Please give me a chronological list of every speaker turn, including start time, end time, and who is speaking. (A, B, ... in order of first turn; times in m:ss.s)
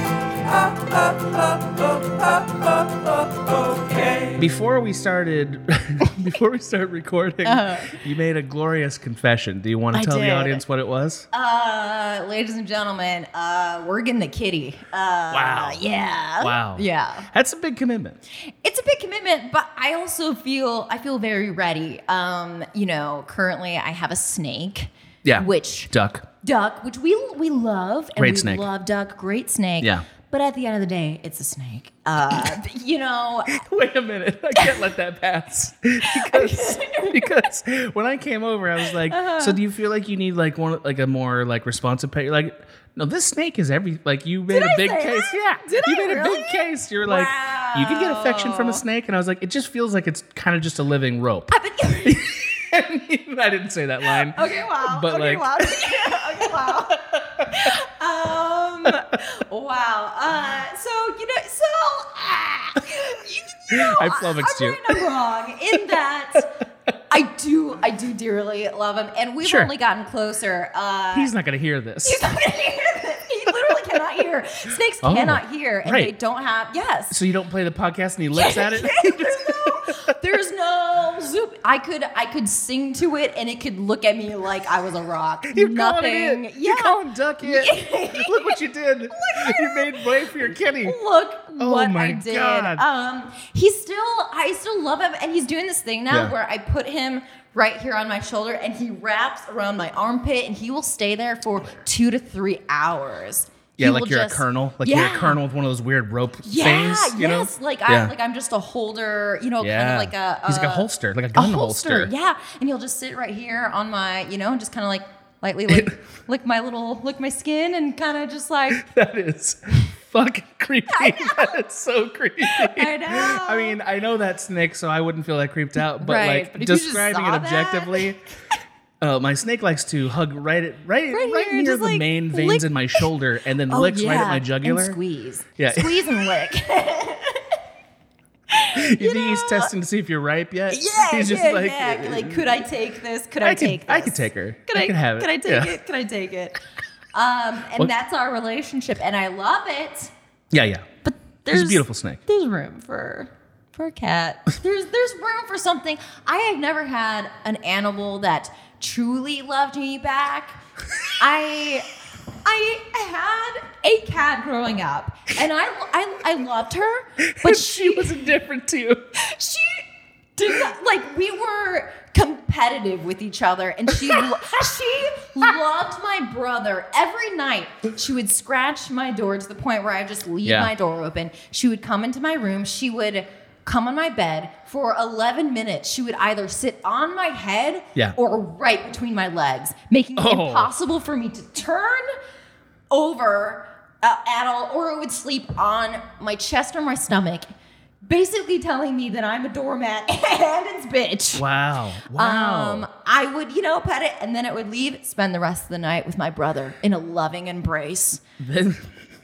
0:00.4-0:04.4 A
0:04.4-0:11.3 B
0:07.4-0:08.0 C
0:09.9-0:10.6 C
0:11.3-0:17.3 C
0:15.3-0:15.8 B
0:16.4-0:18.2 B
0:18.6-0:33.6 C
0:25.2-0:26.3 B
0:28.2-0:28.7 B
0:33.5-0:51.5 B
0:36.0-0:37.4 C
0:39.1-0:39.6 C
0:44.5-0:48.8 C
0:51.5-0:52.4 C
0:52.0-0:57.7 B
0:54.1-1:06.5 C
1:03.7-1:05.0 B
1:07.1-1:11.3 C
1:09.4-1:09.7 B
1:11.1-1:12.2 B
1:12.0-1:17.2 C
1:15.0-1:16.1 B
1:17.1-1:20.0 B
1:18.3-1:28.6 C
1:25.5-1:31.0 B
1:29.1-1:45.4 C
1:31.6-1:32.8 B
1:43.8-1:48.1 B
1:46.4-1:58.8 C
1:49.6-1:52.1 B
1:55.7-1:55.9 B
1:58.7-2:08.2 B
2:00.9-2:01.5 C
2:02.4-2:03.8 C
2:06.0-2:08.1 C
2:09.0-2:15.0 B
2:11.1-2:13.0 C
2:13.7-2:17.6 C
2:15.6-2:16.1 B
2:18.5-2:19.7 C
2:18.7-2:22.5 B
2:20.7-2:26.6 C
2:23.4-2:25.7 B
2:27.1-2:30.1 C
2:30.5-2:30.8 B
2:31.0-2:40.6 C
2:31.5-2:32.2 B
2:41.2-2:41.9 C
2:42.4-2:48.2 C
2:47.2-2:49.0 B
2:49.2-2:49.8 C
2:50.4-3:12.1 C
2:53.9-2:54.5 B
3:00.4-3:00.7 B
3:10.2-3:10.7 B
3:12.9-3:17.5 C
3:18.0-3:21.4 C
3:21.3-3:22.9 B
3:22.1-3:28.2 C
3:28.4-3:28.9 B